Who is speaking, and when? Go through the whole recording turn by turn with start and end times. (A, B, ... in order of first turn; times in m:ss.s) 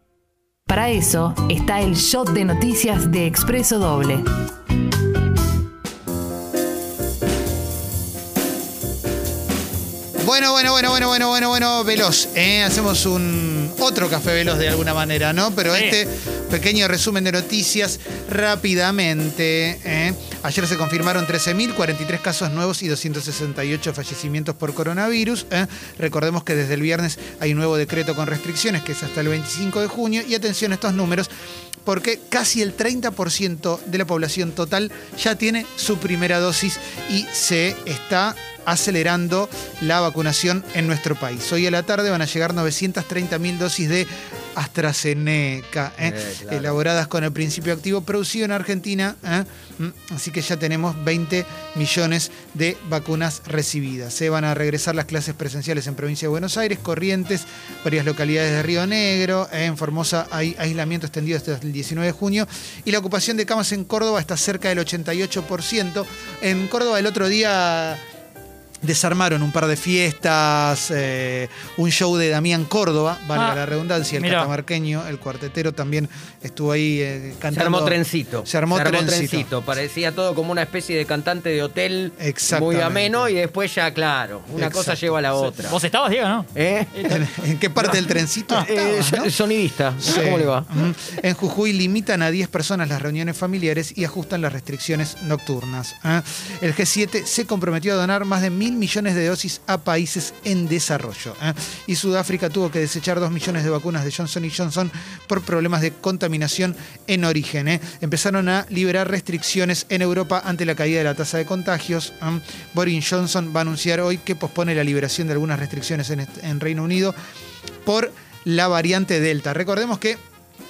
0:00.7-0:04.3 A
0:10.2-0:31.3 B
0:15.7-0:16.0 C
0:31.8-1:08.0 B
0:46.0-0:46.8 D
1:08.8-1:19.5 B
1:13.3-1:13.6 C
1:14.1-1:14.5 C
1:17.5-1:25.8 D
1:22.2-1:23.3 B
1:24.6-1:25.2 B
1:25.5-1:27.2 C
1:26.5-1:27.1 D
1:27.0-1:29.3 B
1:27.8-1:30.7 D
1:30.0-1:57.2 B
1:57.8-2:00.2 B